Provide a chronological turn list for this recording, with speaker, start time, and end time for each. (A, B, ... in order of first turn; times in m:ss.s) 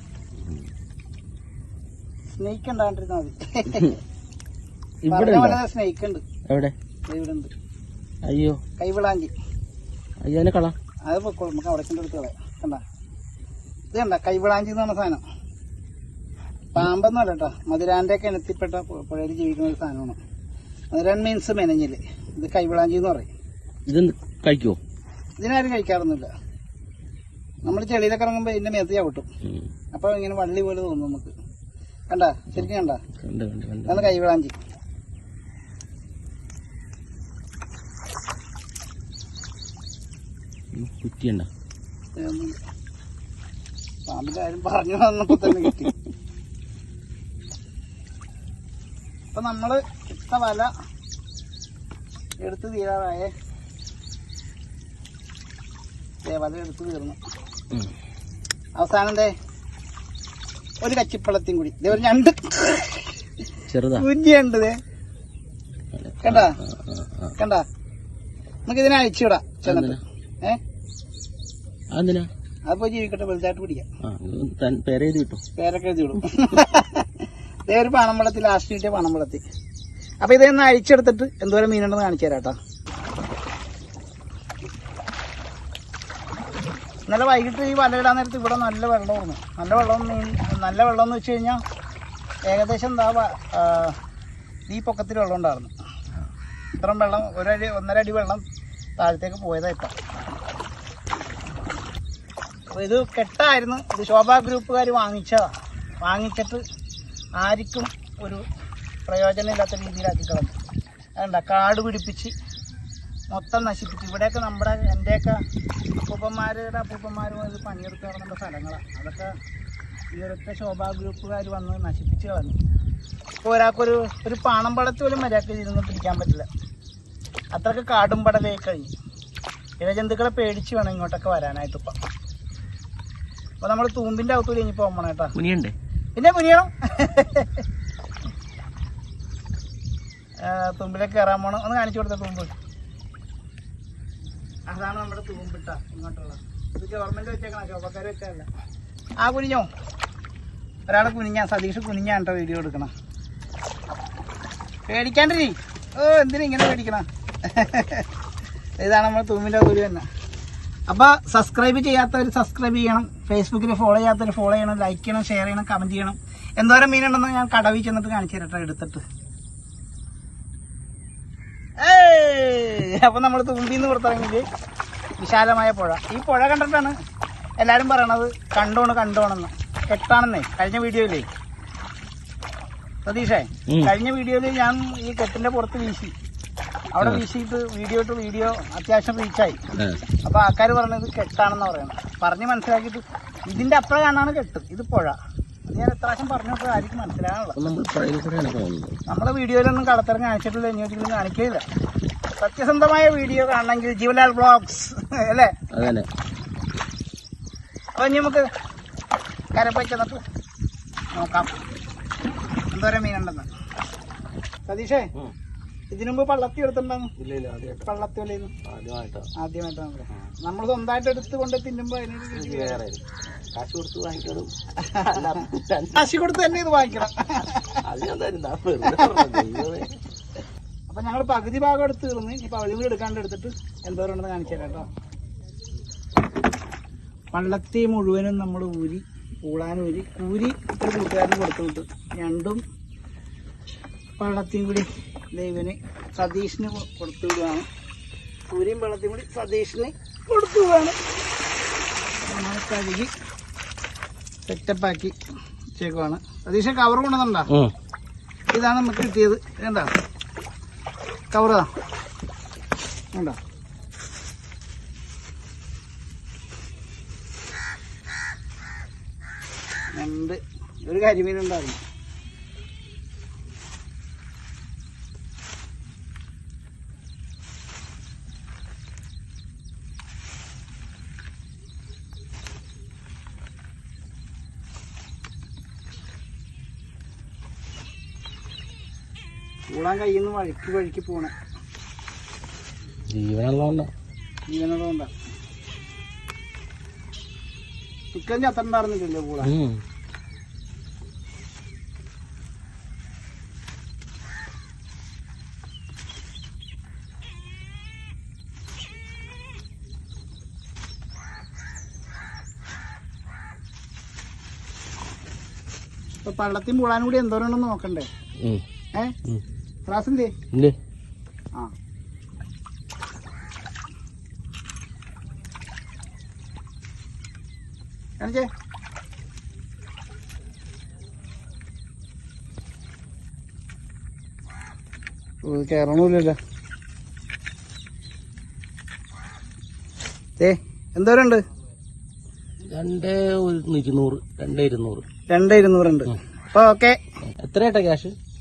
0:00.4-0:00.7 A
0:02.4-0:04.0 B
0:05.0-0:05.6 A
0:05.1-0:06.2 B
0:06.5-0:06.7 A
0:07.1-0:07.5 B
0:08.3-0:08.6 A
0:08.8-0:09.3 B
0:10.2-0:10.8 A
0:11.1-0:12.8 B
0:13.9-0:15.2 B
0:16.7-0:20.2 B
0:20.9-0:23.3 B
0:23.9-0:24.8 A
0:25.4-0:26.3 B
0:27.6-0:29.2 B
0:29.4-0:29.7 A
0:29.9-0:31.3 B
0:32.1-0:33.0 B
0:32.6-0:34.1 A
0:33.9-0:34.5 B
0:40.7-0:41.5 A
0:42.2-0:42.6 B
0:44.1-0:45.9 B
0:49.3-0:50.7 B
0:52.4-0:53.3 B
0:56.2-0:57.2 B
0:58.8-0:59.3 B
1:00.8-1:03.0 B
1:03.7-1:04.1 A
1:04.0-1:04.7 B
1:05.9-1:07.3 A
1:06.2-1:06.6 B
1:07.4-1:07.6 B
1:08.7-1:10.6 B
1:09.6-1:10.0 A
1:11.9-1:12.3 A
1:12.7-1:13.8 B
1:14.0-1:15.4 A
1:15.6-1:19.4 B
1:20.2-1:22.6 B
1:27.1-1:31.6 B
1:32.5-1:34.0 B
1:34.7-1:35.7 B
1:36.8-1:38.4 B
1:39.0-1:39.9 B
1:42.7-1:46.6 B
1:47.4-1:48.4 B
1:49.1-1:50.5 B
1:51.2-1:52.3 B
1:53.3-1:55.4 B
1:56.1-1:59.3 B
2:00.1-2:02.6 B
2:03.4-2:06.5 B
2:07.5-2:08.9 B
2:09.8-2:11.9 B
2:13.6-2:15.3 B
2:15.3-2:15.7 A
2:16.2-2:17.6 B
2:20.4-2:22.5 B
2:24.7-2:28.5 B
2:29.2-2:29.7 B
2:30.9-2:32.9 B
2:34.9-2:38.1 B
2:38.8-2:40.0 B
2:40.9-2:49.0 B
2:51.8-2:54.4 B
2:55.2-2:56.9 B
2:57.6-3:01.3 B
3:03.0-3:06.1 B
3:03.7-3:03.9 A
3:06.9-3:09.6 B
3:09.7-3:10.0 A
3:10.2-3:17.6 B
3:17.6-3:19.0 A
3:19.1-3:21.6 B
3:22.4-3:25.5 B
3:25.7-3:26.1 A
3:28.0-3:28.5 B
3:29.5-3:30.2 B
3:31.1-3:31.6 B
3:32.7-3:33.5 B
3:34.7-3:35.1 B
3:35.9-3:37.1 B
3:37.2-3:37.9 A
3:37.8-3:38.5 B
3:38.6-3:39.3 A
3:39.4-3:42.8 B
3:42.3-3:43.0 A
3:43.5-3:44.5 A
3:44.8-3:45.4 B
3:45.1-3:46.1 A
3:45.9-3:47.8 B
3:47.8-3:50.0 A
3:48.8-3:49.4 B
3:50.9-3:54.9 B
3:57.3-4:02.6 B
4:04.2-4:07.7 B
4:08.5-4:11.0 B
4:12.2-4:13.1 B
4:14.5-4:15.1 B
4:15.8-4:17.5 B
4:18.5-4:19.9 B
4:21.3-4:21.7 B
4:29.9-4:31.8 B
4:49.7-4:51.3 B
4:53.1-4:53.9 A
4:54.5-4:55.1 B
4:58.1-4:59.5 B
4:59.4-4:59.8 A
5:16.2-5:18.1 B
5:19.9-5:20.3 B
5:28.2-5:28.5 B
5:35.4-5:36.4 B
5:40.4-5:41.4 B
5:42.7-5:45.0 A
5:45.3-5:47.0 B
5:47.4-5:48.1 A